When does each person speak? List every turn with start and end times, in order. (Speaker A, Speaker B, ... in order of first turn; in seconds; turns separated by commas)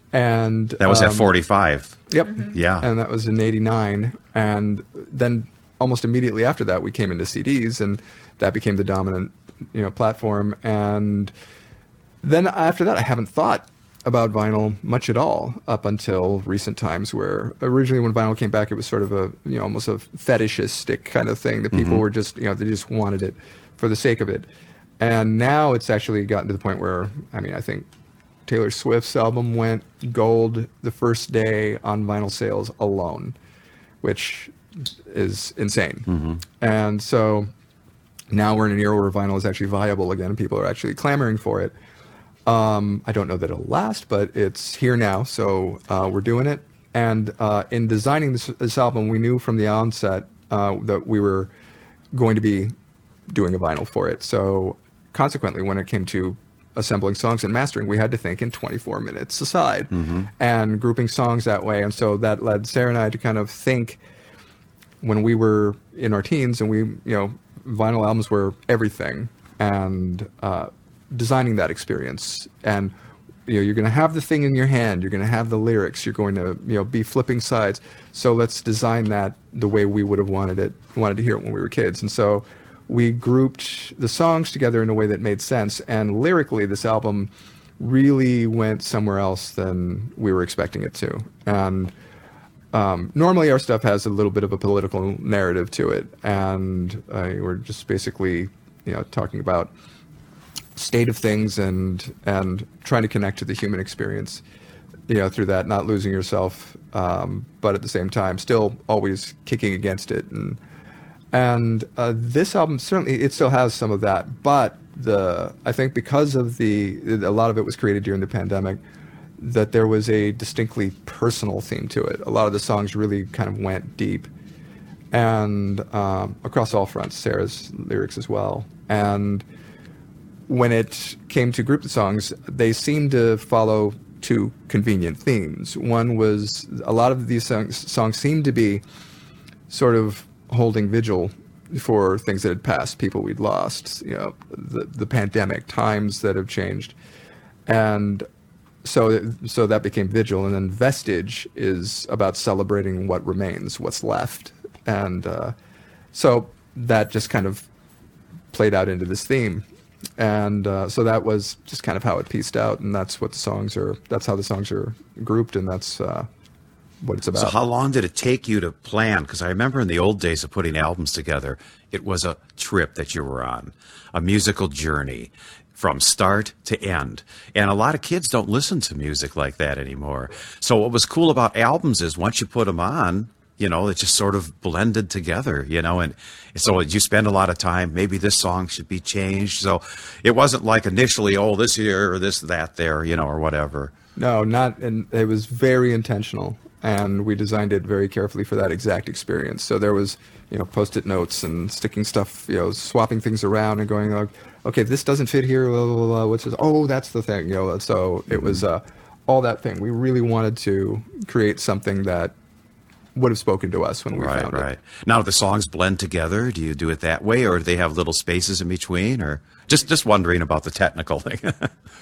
Speaker A: 0.1-1.3, Speaker B: 0.8-2.0, Speaker A: 2.1-11.3, Speaker B: 2.5-2.9, Speaker A: 12.2-24.5, Speaker B: 21.7-22.0, Speaker A: 25.0-27.9, Speaker A: 28.5-33.4, Speaker A: 34.0-37.5, Speaker B: 36.1-36.4, Speaker A: 38.3-41.7, Speaker A: 42.5-51.5, Speaker A: 52.1-52.7, Speaker A: 53.3-64.0, Speaker B: 59.9-60.3, Speaker A: 65.0-72.9, Speaker A: 73.5-91.9, Speaker A: 92.7-99.7, Speaker A: 100.8-104.4, Speaker A: 105.1-110.6, Speaker A: 111.3-118.8, Speaker A: 119.4-124.3, Speaker A: 125.1-129.4, Speaker A: 130.5-138.8, Speaker A: 139.7-146.9, Speaker A: 147.7-148.2, Speaker A: 148.8-155.5, Speaker A: 156.1-157.7, Speaker A: 158.5-159.6, Speaker A: 160.2-166.3, Speaker A: 167.0-167.5, Speaker B: 167.3-193.9, Speaker A: 194.2-212.3, Speaker B: 208.3-208.6, Speaker A: 213.1-214.7, Speaker B: 214.1-221.7